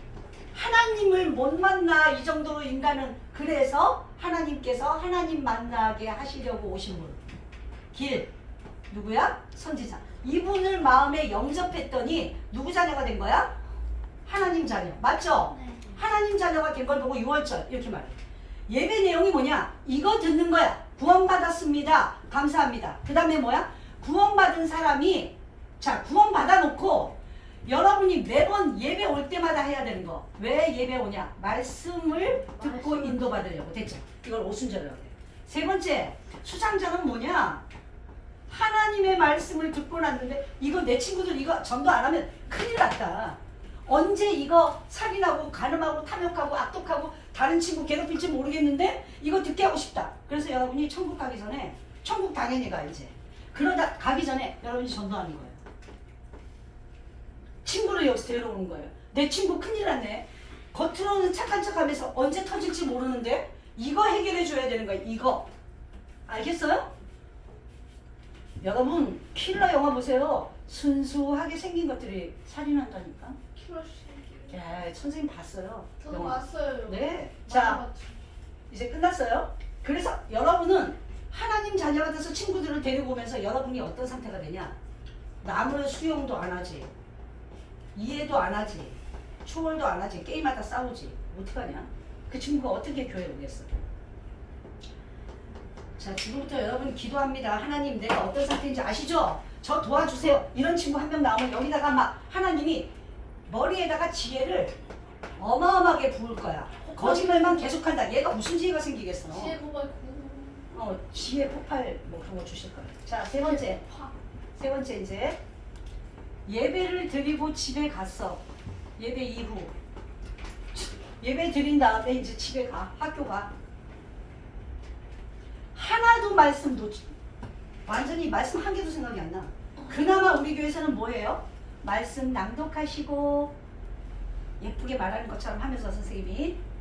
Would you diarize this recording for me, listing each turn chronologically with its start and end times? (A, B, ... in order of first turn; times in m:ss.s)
0:00.5-0:07.2 A
0:07.9-0:08.3 A
0:08.9-0:13.6 A
0:14.2-0:18.2 A
0:15.5-0:15.9 B
0:18.7-0:37.6 A
0:38.5-0:55.6 A
0:57.6-1:05.5 A
1:06.3-1:06.9 A
1:08.6-1:13.4 A
1:13.6-1:14.6 B
1:14.5-1:17.8 A
1:16.0-1:18.2 B
1:18.7-1:24.8 A
1:25.4-1:26.9 A
1:28.0-1:33.7 A
1:36.0-1:42.9 A
1:43.5-1:44.8 A
1:45.4-1:49.6 A
1:46.8-1:47.7 B
1:49.3-1:50.7 B
1:50.7-1:53.8 A
1:53.4-1:54.2 B
1:54.6-1:55.4 A
1:56.5-1:58.4 A
1:59.0-1:59.7 A
2:00.7-2:03.5 A
2:05.7-2:07.1 A
2:07.9-2:13.6 A
2:14.6-2:16.6 A